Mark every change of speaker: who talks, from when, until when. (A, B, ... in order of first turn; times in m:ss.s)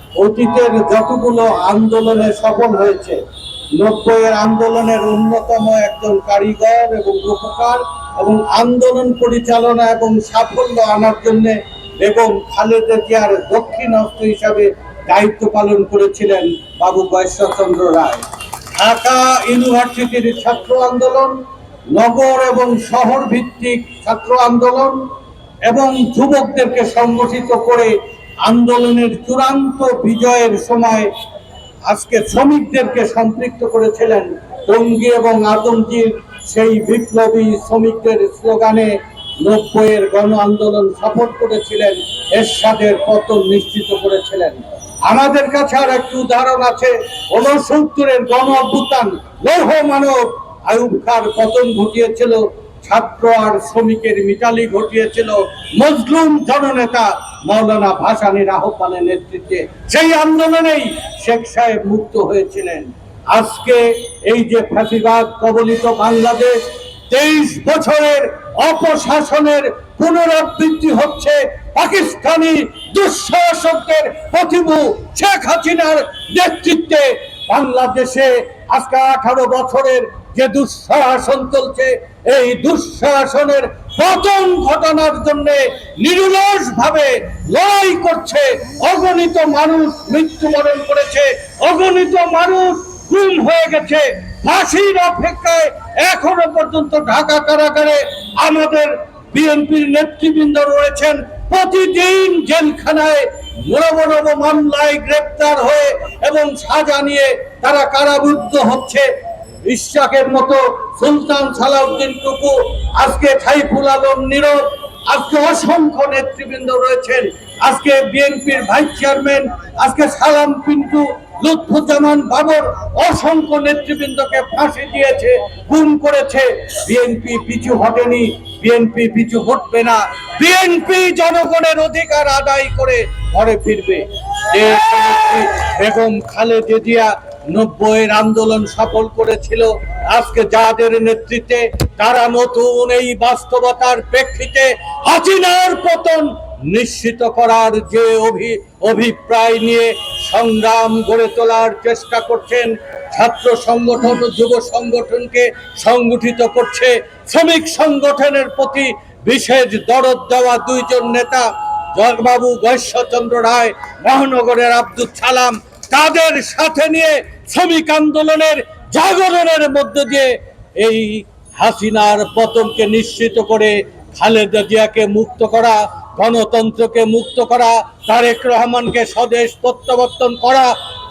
0:00.2-0:03.2 A
0:03.8-0:18.2 A
0:18.8-0:21.4 A
0:21.9-0:25.0 A
0:25.6-0:27.9 A
0:28.4-0:31.1 A
0:31.9-1:49.0 A
1:49.6-3:00.7 A